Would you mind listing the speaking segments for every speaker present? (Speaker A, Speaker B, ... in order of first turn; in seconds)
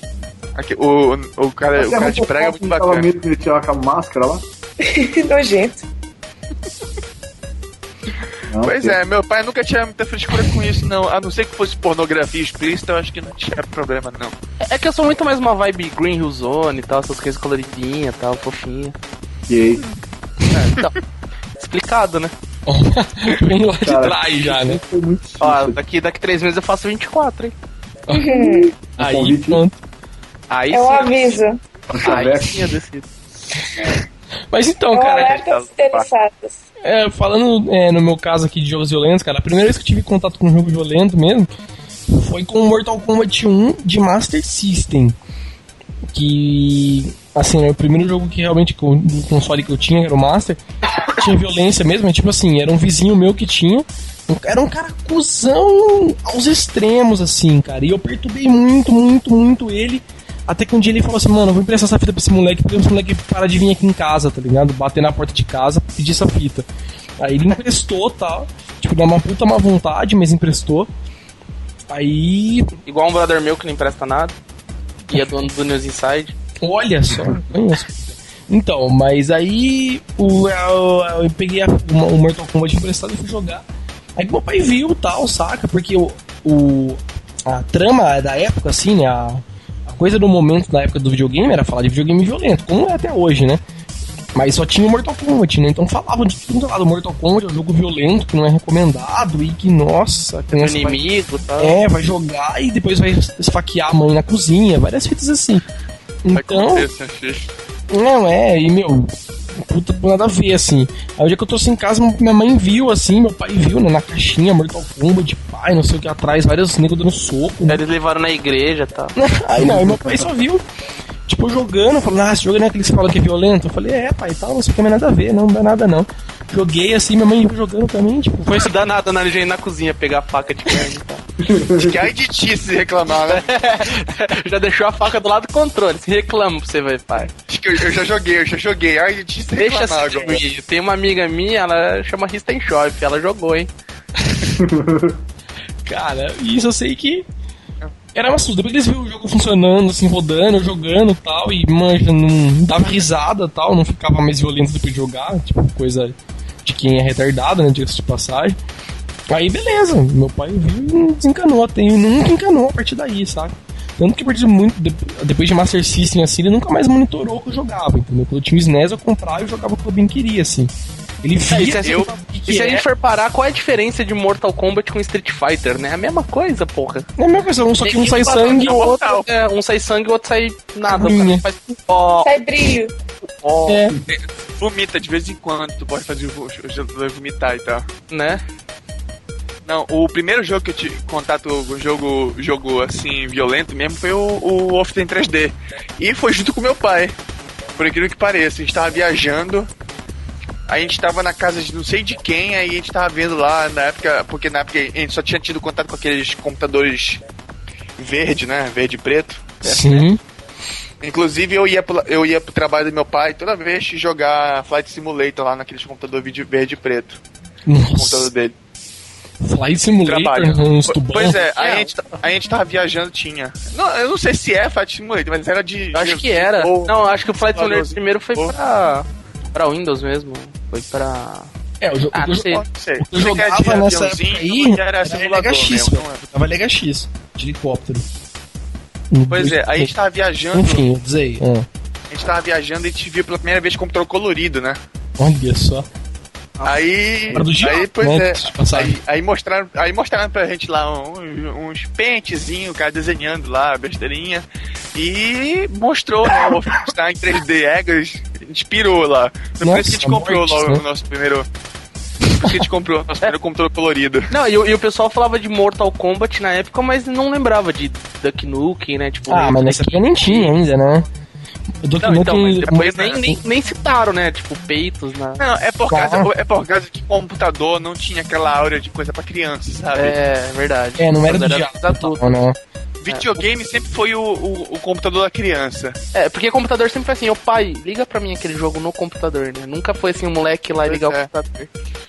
Speaker A: 0.6-3.1, 8.6-14.3, 35.0-36.1, 106.3-107.5, 131.8-133.5, 137.5-140.4, 178.4-179.2, 184.0-187.9, 189.7-197.2, 197.8-199.7, 200.7-207.2, 208.0-210.1, 211.0-217.2, 217.9-218.6, 220.1-228.6, 232.5-236.3, 239.3-240.9, 242.1-244.8, 246.6-261.5, 262.4-264.3, 272.7-273.2, 275.4-280.2, 283.0-286.0, 290.9-291.7
Speaker B: 1.8-4.5, 8.5-9.0, 19.5-19.8, 23.8-25.8, 29.0-29.6, 31.9-32.7, 119.6-120.2, 131.4-132.0, 144.6-145.2
Speaker C: 4.8-5.8, 28.1-28.8, 30.7-31.6, 34.9-36.6, 182.2-182.9
Speaker D: 14.7-18.9, 20.5-21.0, 21.6-22.3, 25.4-27.5, 30.5-31.4, 32.0-33.1, 72.9-74.3, 75.1-76.3, 100.5-101.8, 117.7-119.2, 128.5-131.2, 133.1-137.3, 139.6-143.7, 171.5-177.1, 177.8-182.4, 183.4-183.8, 188.1-188.4, 221.6-221.9, 225.9-231.5, 232.1-232.6, 264.3-270.6, 272.0-275.4, 279.9-282.2, 283.1-283.4, 286.1-291.6
Speaker E: 22.7-24.8, 28.1-29.8, 34.5-35.4, 36.8-41.5, 42.1-45.2, 46.1-66.7, 67.2-70.9, 71.9-72.7, 76.6-83.7, 84.2-93.6, 94.3-101.0, 101.6-105.6, 106.2-106.9, 107.9-117.8, 119.2-120.7, 121.3-128.7, 145.8-147.3, 148.2-158.6, 159.3-172.8, 177.2-178.9, 180.9-181.4, 183.7-184.0, 209.6-210.2, 217.7-218.3, 219.4-221.4, 231.8-238.1, 239.1-239.9, 240.5-241.7, 245.2-245.9, 247.3-249.0, 259.6-260.8, 269.3-271.1, 271.8-273.4, 275.9-276.3, 281.0-282.6